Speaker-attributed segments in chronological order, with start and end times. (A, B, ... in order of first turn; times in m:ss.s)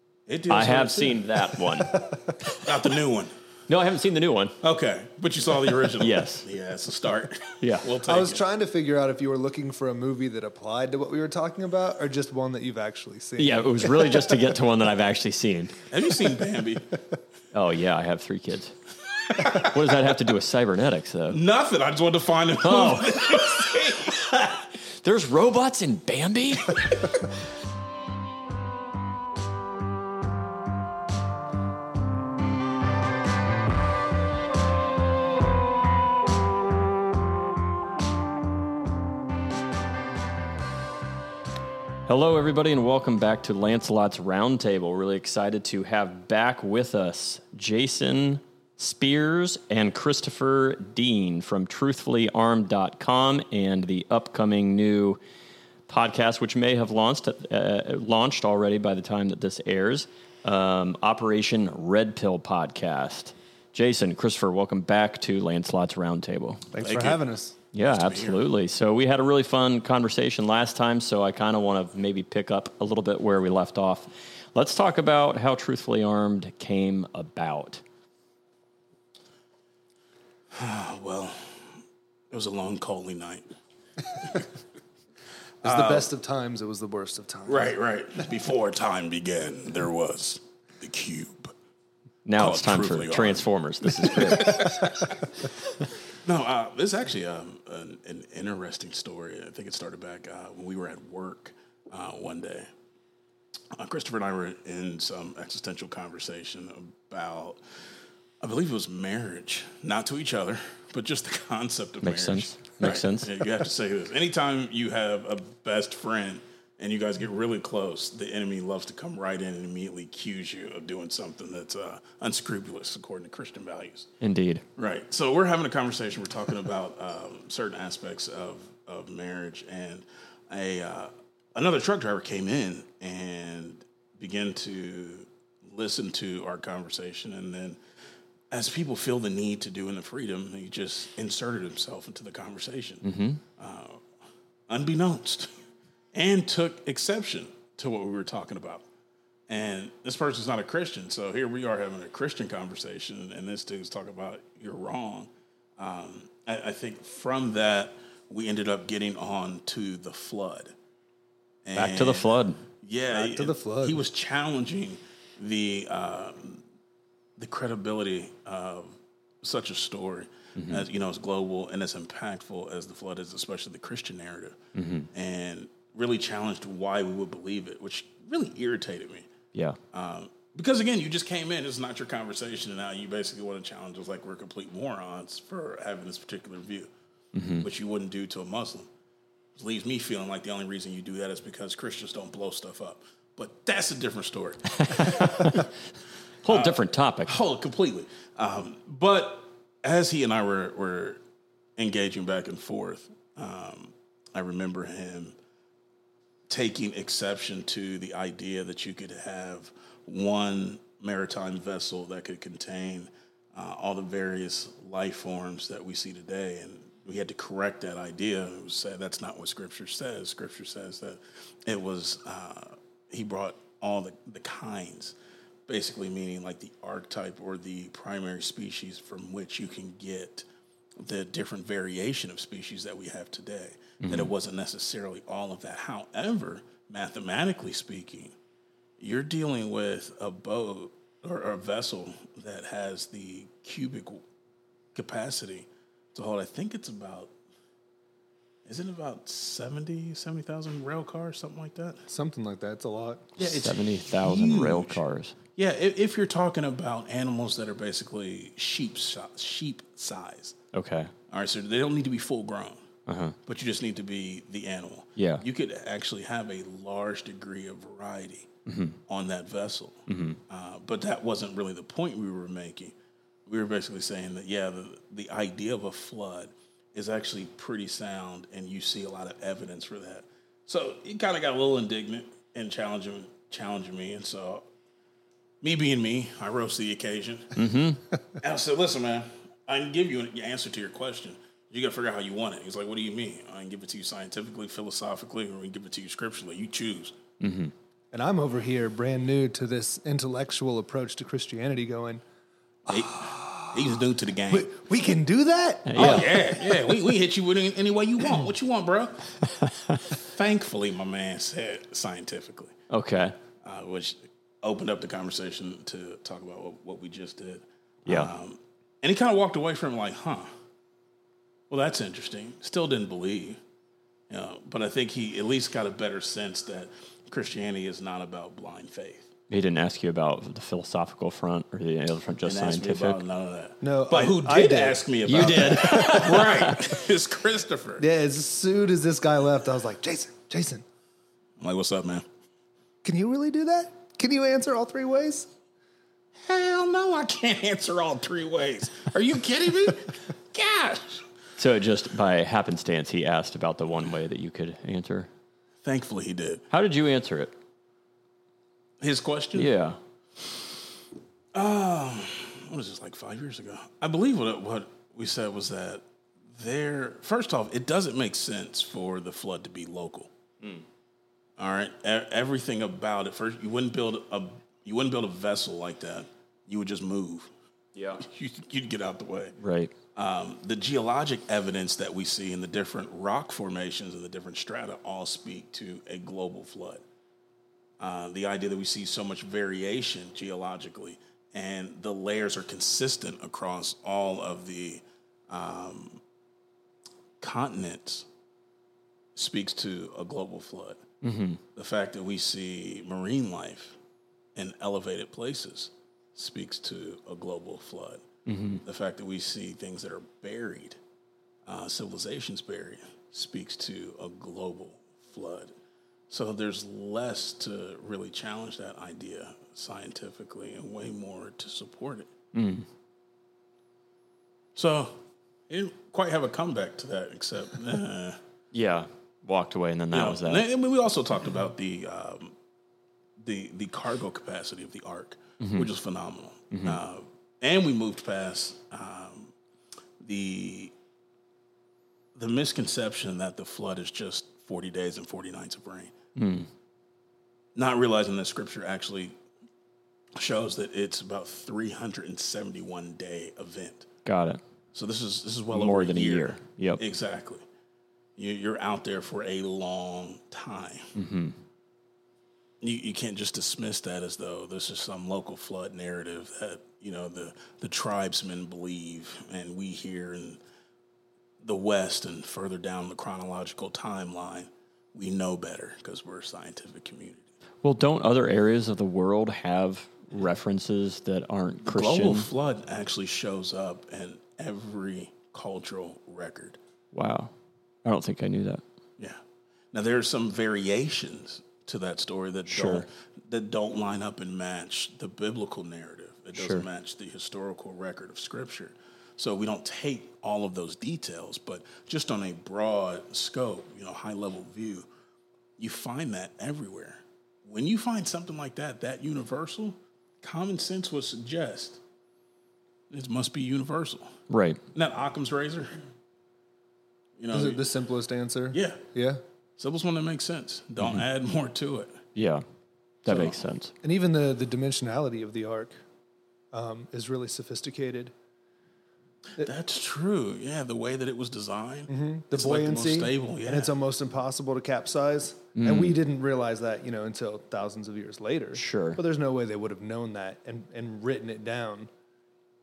0:00.3-0:01.5 A
0:00.5-0:02.1 B
0:02.5-0:03.3 A
0:03.7-0:04.6 B
0:04.6-0:08.4 A
0:06.0-0:06.4 B
0:07.6-0:07.9 B
0:08.0-0:14.5 C
0:13.4-0:15.8 B
0:15.9-0:17.0 A
0:17.5-0:18.7 B
0:19.3-0:19.7 A
0:19.3-0:21.4 B
0:21.3-0:24.3 A
0:22.6-0:27.0 B
0:42.0-0:55.2 B
0:55.9-1:06.6 B
1:06.7-1:07.6 C
1:06.8-1:07.2 A
1:07.7-1:17.8 B
1:07.8-1:08.4 A
1:20.5-1:21.7 A
1:22.3-1:23.5 A
1:25.6-1:26.1 A
1:25.6-1:27.7 C
1:27.5-1:31.5 A
1:32.2-1:34.8 B
1:32.4-1:35.2 A
1:36.2-1:42.7 A
1:43.7-1:47.6 A
1:48.4-2:04.1 A
1:52.0-1:53.3 B
2:04.2-2:04.6 B
2:04.8-2:17.8 A
2:18.5-2:23.0 A
2:23.0-2:23.4 B
2:23.6-2:24.0 A
2:24.7-2:25.5 A
2:26.1-2:28.8 A
2:29.5-2:40.7 A
2:41.6-2:42.3 A
2:41.7-2:42.6 B
2:42.8-2:46.6 A
2:43.1-2:44.0 C
2:47.4-2:54.6 A
2:50.6-2:50.8 B
2:54.7-2:55.1 B
2:55.1-2:59.3 A
2:59.9-3:06.9 A
3:07.3-3:07.6 B
3:07.6-3:08.9 A
3:09.6-3:15.6 A
3:14.8-3:15.7 B
3:16.4-3:17.4 B
3:16.4-3:21.2 A
3:21.8-3:25.3 A
3:26.5-3:45.2 A
3:45.7-3:50.4 A
3:51.0-3:58.3 A
3:54.0-3:54.3 B
3:59.0-4:04.2 A
4:04.9-4:07.3 A
4:08.6-4:12.0 A
4:12.1-4:13.3 C
4:13.4-4:15.3 B
4:13.4-4:15.0 A
4:15.6-4:20.6 A
4:20.7-4:21.1 B
4:21.3-4:22.8 A
4:23.1-4:23.4 B
4:23.4-4:28.5 A
4:25.2-4:25.4 B
4:28.6-4:29.0 B
4:29.1-4:32.9 A
4:30.1-4:30.4 B
4:33.4-4:44.6 A
4:45.6-4:47.7 A
4:47.5-4:48.0 B
4:48.4-4:57.2 A
4:57.4-4:57.7 B
4:58.1-5:02.2 C
5:02.9-5:04.8 A
5:04.5-5:06.2 C
5:05.9-5:06.4 B
5:05.9-5:12.7 A
5:09.6-5:10.1 B
5:12.9-5:13.4 B
5:13.6-5:20.5 A
5:21.7-5:23.6 A
5:24.3-5:29.3 A
5:29.5-5:33.2 B
5:32.4-5:38.0 A
5:33.8-5:36.4 C
5:35.2-5:36.8 B
5:38.0-5:40.8 C
5:41.6-5:42.2 A
5:43.0-5:45.5 C
5:46.4-5:51.2 A
5:51.6-5:55.3 B
5:55.8-5:56.6 A
5:56.7-5:57.5 B
5:59.0-5:59.7 A
5:59.5-6:00.0 B
6:01.5-6:10.3 A
6:11.6-6:17.5 A
6:17.9-6:18.2 B
6:18.2-6:19.6 A
6:19.6-6:19.9 B
6:20.1-6:27.0 A
6:28.0-6:36.2 A
6:37.4-6:38.2 A
6:39.4-6:41.0 A
6:41.2-6:41.6 B
6:41.7-6:44.0 A
6:44.6-6:48.2 A
6:48.4-6:48.8 B
6:48.8-6:51.0 A
6:51.6-6:55.7 A
6:56.3-7:02.3 A
7:02.5-7:02.8 B
7:04.7-7:05.2 A
7:05.7-7:08.4 A
7:08.7-7:10.6 B
7:10.1-7:12.5 A
7:13.4-7:19.5 A
7:15.6-7:15.9 B
7:16.7-7:17.0 B
7:20.2-7:20.9 A
7:22.3-7:26.1 A
7:26.4-7:26.7 B
7:27.7-7:29.3 A
7:30.4-7:34.1 A
7:34.2-7:34.6 B
7:34.9-7:37.6 A
7:35.7-7:37.0 B
7:38.4-7:41.1 A
7:41.1-7:41.6 B
7:42.8-7:50.6 A
7:51.6-7:57.5 A
7:57.8-8:02.5 B
8:01.8-8:06.8 A
8:07.1-8:07.5 B
8:08.0-8:08.8 B
8:09.9-8:25.1 A
8:12.7-8:13.1 B
8:16.5-8:16.8 B
8:25.8-8:32.0 A
8:33.1-8:34.4 A
8:34.5-8:34.8 B
8:34.9-8:36.0 A
8:37.4-8:37.9 A
8:37.5-8:39.4 C
8:38.7-8:39.0 A
8:39.8-8:42.2 A
8:42.4-8:42.6 B
8:43.2-8:43.9 B
8:43.3-8:43.6 A
8:44.0-8:46.0 C
8:46.7-8:48.3 C
8:49.5-8:53.9 A
8:52.1-9:02.1 C
8:55.8-8:56.2 B
8:58.7-8:59.2 B